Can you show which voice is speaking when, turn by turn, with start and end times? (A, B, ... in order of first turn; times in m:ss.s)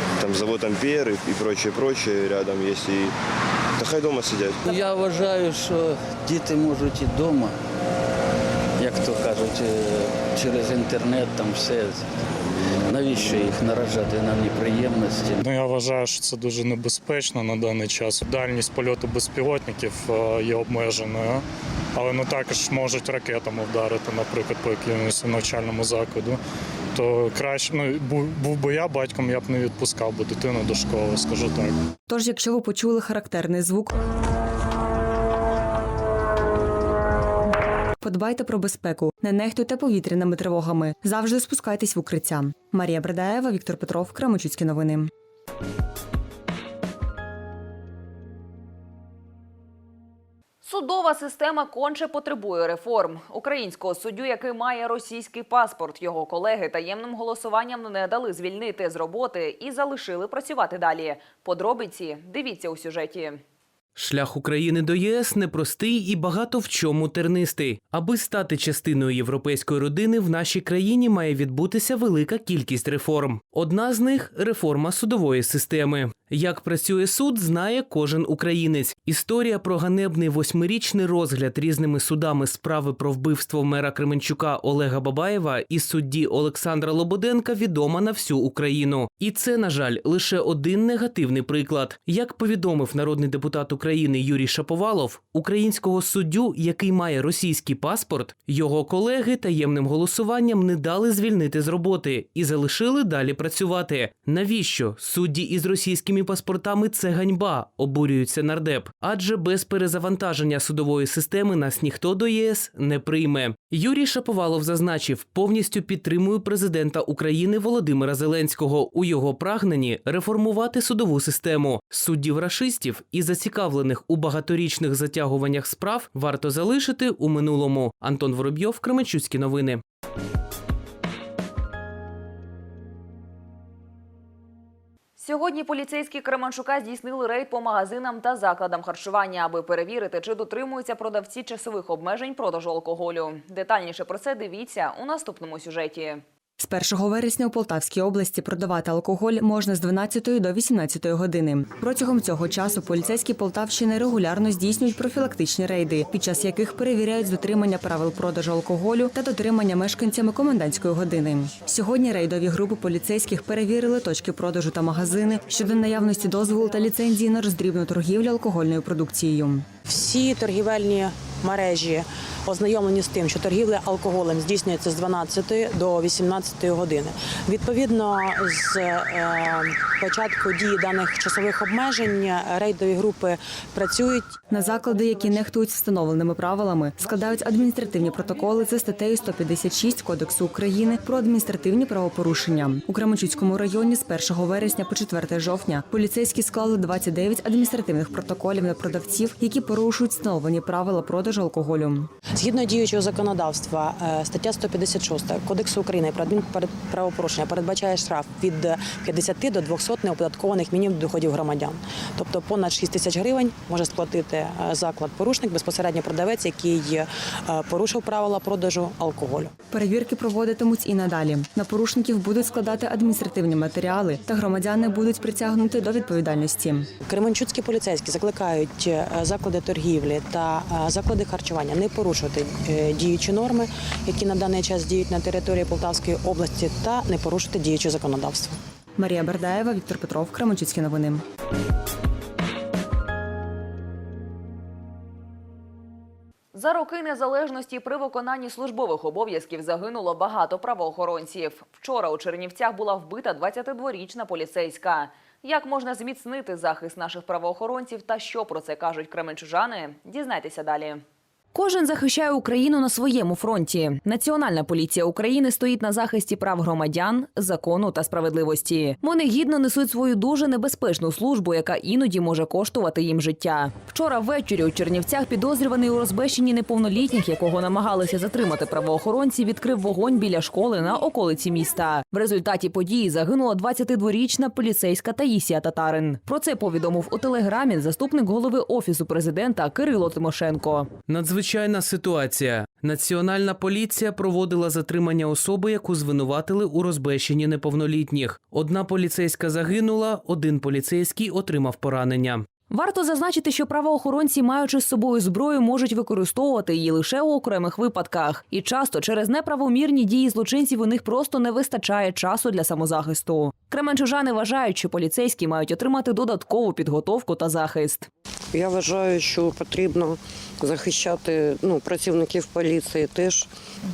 0:00.2-0:03.1 A
0:03.8-0:04.6 A
0:04.6-0:07.6 B
0:08.8-0:12.1 B
0:12.9-0:15.4 B
0:15.4-0:21.4 C
0:22.0-0:26.4 C
0:26.9-0:31.8 C
0:32.1-0:34.0 D
0:38.0-0:45.1 D
0:50.6-1:03.4 E
1:04.0-2:09.8 F
2:15.2-2:26.2 E
2:26.6-2:49.6 D
2:49.8-3:04.3 G
3:04.5-3:22.1 D
3:22.3-3:39.5 G
3:39.7-3:46.8 D
3:47.0-3:58.6 G
3:59.0-4:01.2 D
4:06.5-4:21.0 E
4:21.5-4:50.9 E
4:51.1-5:02.4 F
5:02.7-5:18.1 E
5:18.5-5:23.5 H